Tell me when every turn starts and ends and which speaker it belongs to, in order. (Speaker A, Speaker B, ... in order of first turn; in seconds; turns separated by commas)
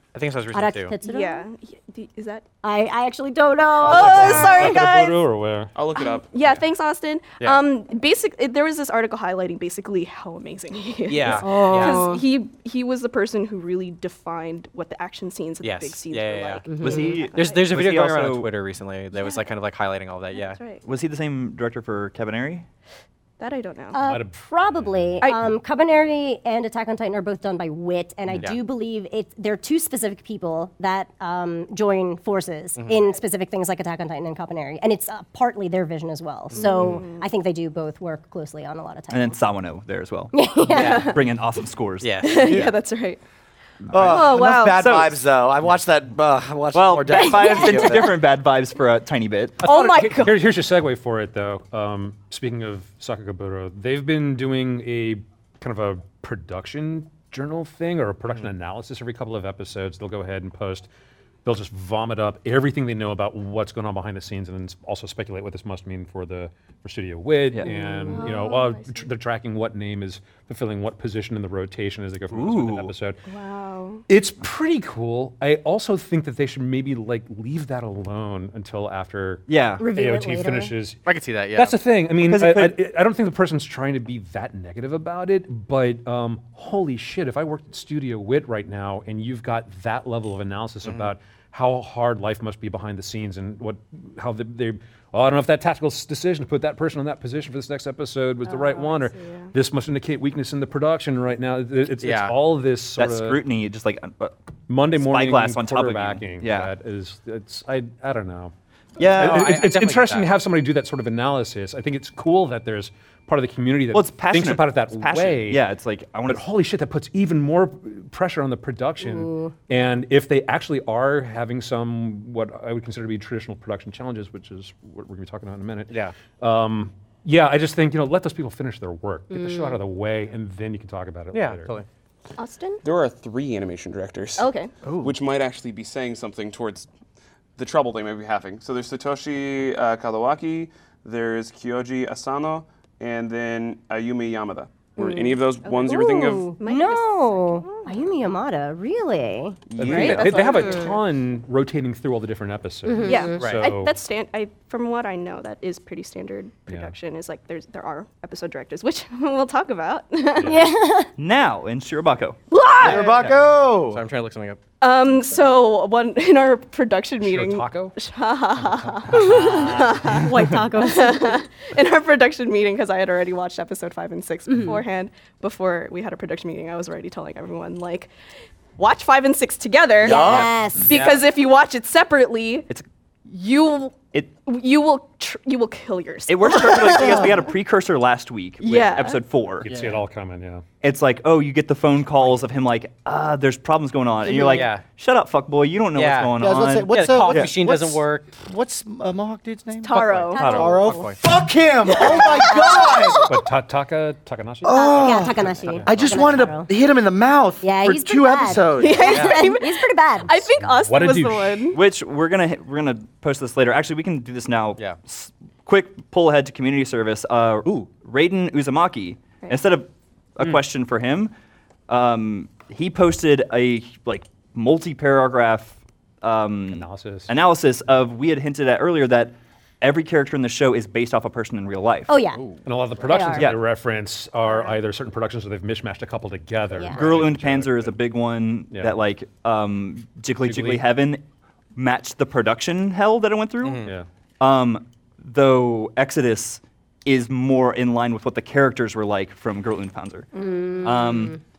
Speaker A: 0.1-1.0, Speaker B: 0.5-1.4, Speaker C: 1.0-2.5, Speaker B: 2.6-4.8, Speaker C: 3.8-5.2, Speaker D: 3.8-5.7, Speaker E: 5.7-6.3, Speaker C: 6.0-17.7, Speaker A: 11.1-12.1, Speaker B: 11.4-12.2, Speaker A: 15.6-20.6, Speaker B: 16.7-17.2, Speaker F: 16.8-18.5, Speaker C: 19.1-19.4, Speaker C: 20.3-20.8, Speaker F: 20.8-22.6, Speaker C: 23.4-24.0, Speaker B: 23.9-39.4, Speaker D: 24.0-25.3, Speaker C: 25.2-25.5, Speaker A: 28.3-28.6, Speaker A: 32.8-33.1, Speaker C: 36.5-37.2, Speaker A: 36.5-36.9, Speaker F: 39.1-42.4, Speaker B: 40.3-41.1, Speaker A: 40.7-41.1, Speaker C: 40.7-41.2, Speaker A: 42.0-42.7, Speaker C: 42.2-43.2, Speaker G: 42.4-42.7, Speaker F: 43.8-45.2, Speaker G: 43.9-48.1, Speaker C: 44.0-44.9, Speaker F: 46.7-49.6, Speaker D: 49.6-60.9, Speaker C: 49.6-50.4, Speaker D: 61.4-73.2, Speaker C: 67.6-69.0, Speaker F: 72.3-72.9, Speaker C: 73.2-74.0, Speaker D: 74.1-103.4, Speaker F: 79.5-79.8, Speaker B: 79.8-80.7, Speaker A: 81.0-81.8, Speaker F: 82.2-82.7, Speaker A: 90.8-91.1, Speaker C: 98.5-99.5, Speaker A: 102.0-102.3, Speaker F: 103.0-104.3, Speaker D: 104.7-108.5, Speaker F: 104.9-106.7, Speaker F: 109.0-109.6, Speaker A: 109.0-110.3, Speaker D: 109.0-115.6, Speaker F: 113.9-116.4, Speaker D: 116.2-131.7, Speaker B: 119.0-119.5, Speaker A: 125.9-126.1, Speaker B: 129.3-129.8, Speaker A: 131.3-131.8, Speaker C: 132.4-132.8, Speaker E: 132.8-134.5, Speaker C: 134.4-134.7, Speaker A: 134.8-135.1, Speaker E: 135.0-136.9, Speaker E: 137.6-146.6, Speaker C: 145.0-148.1, Speaker B: 146.2-150.9, Speaker E: 149.7-150.2, Speaker D: 149.8-153.9, Speaker C: 149.8-151.0, Speaker B: 152.9-153.4, Speaker C: 153.0-160.7, Speaker A: 153.3-153.7, Speaker D: 160.4-160.7, Speaker B: 160.4-161.1, Speaker F: 161.2-162.4, Speaker C: 162.5-163.3, Speaker G: 162.8-164.0, Speaker A: 162.8-164.6, Speaker C: 164.8-178.1, Speaker D: 167.2-168.0, Speaker A: 169.2-169.9, Speaker B: 169.5-171.4, Speaker B: 174.5-174.8, Speaker C: 178.8-182.7, Speaker B: 180.0-180.9, Speaker G: 180.0-180.5, Speaker A: 180.1-181.2, Speaker C: 183.3-187.5, Speaker F: 186.3-189.7, Speaker C: 188.6-189.2, Speaker D: 189.6-190.6, Speaker F: 190.8-197.5, Speaker C: 194.2-194.7, Speaker A: 194.3-194.8, Speaker A: 195.9-198.3, Speaker G: 196.4-203.3, Speaker C: 199.8-200.8, Speaker A: 199.9-201.2, Speaker B: 200.3-201.1, Speaker F: 200.3-200.8, Speaker C: 201.9-203.1, Speaker B: 202.0-203.4, Speaker D: 203.2-206.3, Speaker G: 204.6-209.0, Speaker B: 204.7-206.7, Speaker A: 205.9-206.4, Speaker B: 207.6-210.4, Speaker C: 208.7-211.8, Speaker A: 209.0-209.5, Speaker D: 210.6-211.7, Speaker F: 211.7-221.3, Speaker F: 221.9-232.3, Speaker D: 226.7-227.3, Speaker B: 232.1-232.5, Speaker D: 232.6-238.0, Speaker B: 233.0-233.5, Speaker F: 233.3-233.6, Speaker F: 236.9-241.2, Speaker D: 240.4-240.9, Speaker F: 241.7-250.3, Speaker A: 243.6-243.9, Speaker B: 250.4-251.3, Speaker C: 250.4-250.7, Speaker F: 250.8-251.4